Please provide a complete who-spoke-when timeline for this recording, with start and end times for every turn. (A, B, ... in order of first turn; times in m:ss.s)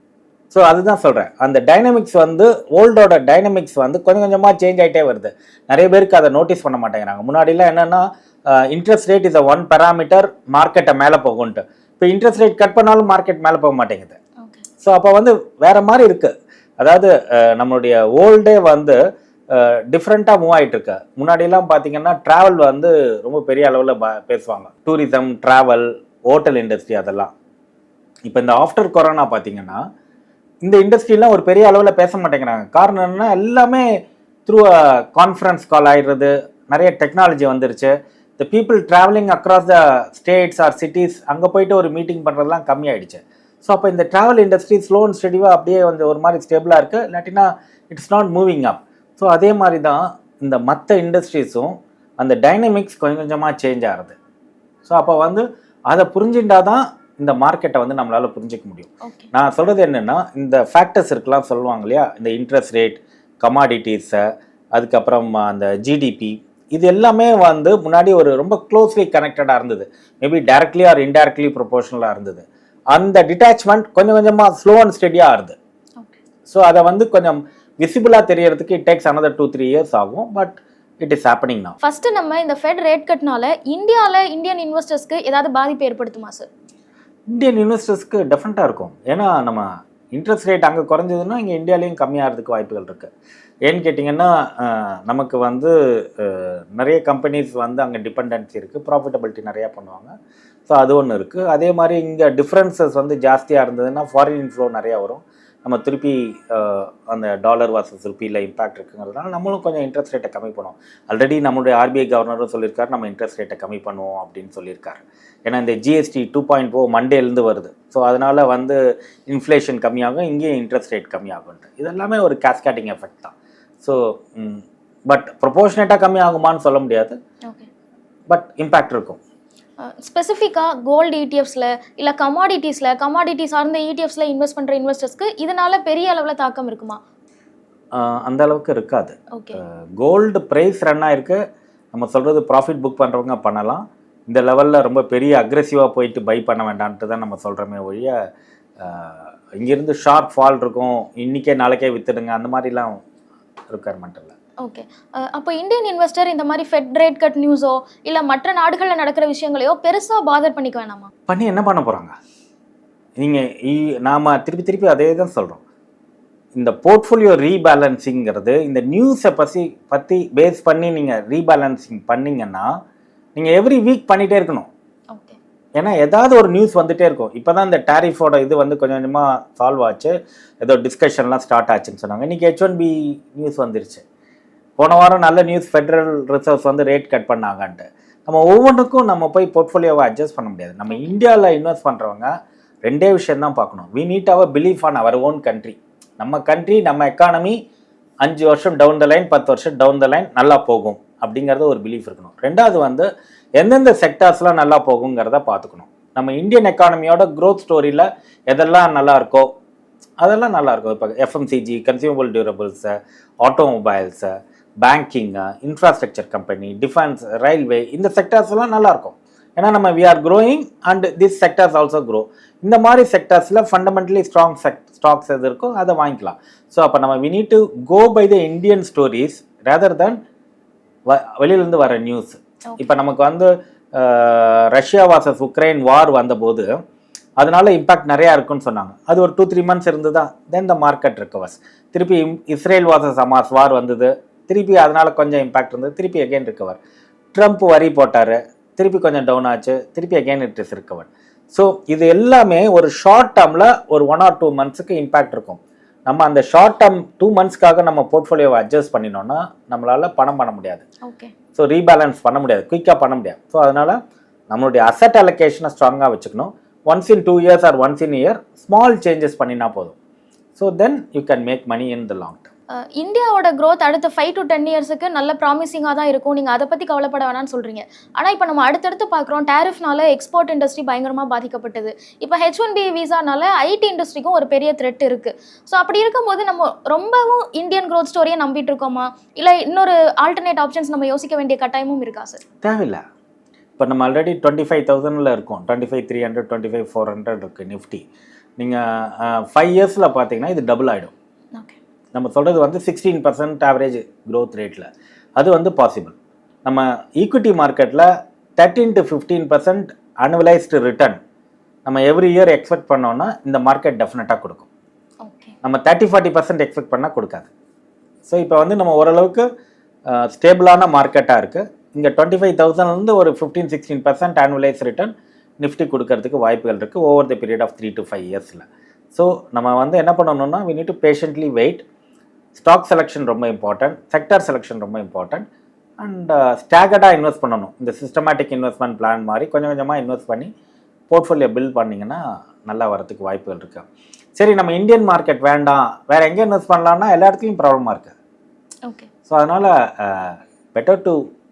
0:00.5-0:14.2 A
0:14.4-0:14.6 B
0:14.8-0:19.0 A
0:19.5-0:27.3 A
0:28.3-0:29.8 A
0:30.6-0:54.2 A
0:54.9-1:04.2 A
0:59.0-0:59.3 B
1:04.8-1:15.6 A
1:16.5-1:21.8 A
1:21.8-1:26.5 B
1:27.3-1:33.1 A
1:33.6-1:40.1 A
1:40.7-2:07.2 A
2:08.3-2:09.2 A
2:09.8-2:17.0 B
2:17.9-2:21.4 A
2:21.9-2:28.2 A
2:28.8-2:33.0 A
2:33.7-2:34.4 A
2:34.6-2:41.1 B
2:41.3-2:42.2 A
2:43.2-2:45.6 A
2:46.5-2:52.7 A
2:53.4-2:54.7 A
2:55.1-2:55.4 B
2:55.8-3:04.0 A
3:04.8-3:12.3 A
3:10.9-3:11.2 B
3:12.8-3:17.6 A
3:18.2-3:29.5 A
3:30.2-3:50.2 A
3:51.1-3:56.7 A
3:57.4-4:06.8 A
4:07.3-4:20.8 A
4:21.0-4:21.3 B
4:21.6-4:24.0 A
4:24.5-4:30.0 A
4:30.6-4:32.5 A
4:32.9-4:52.4 B
4:52.6-4:53.0 A
4:53.8-4:58.0 A
4:58.6-5:01.1 A
5:02.1-5:11.2 A
5:11.8-5:14.7 A
5:15.2-5:15.6 B
5:15.6-5:17.5 A
5:18.3-5:19.5 A
5:20.1-5:31.8 A
5:32.6-5:35.5 A
5:36.0-5:40.5 A
5:41.1-5:43.9 A
5:44.4-5:48.2 A
5:49.3-5:51.2 A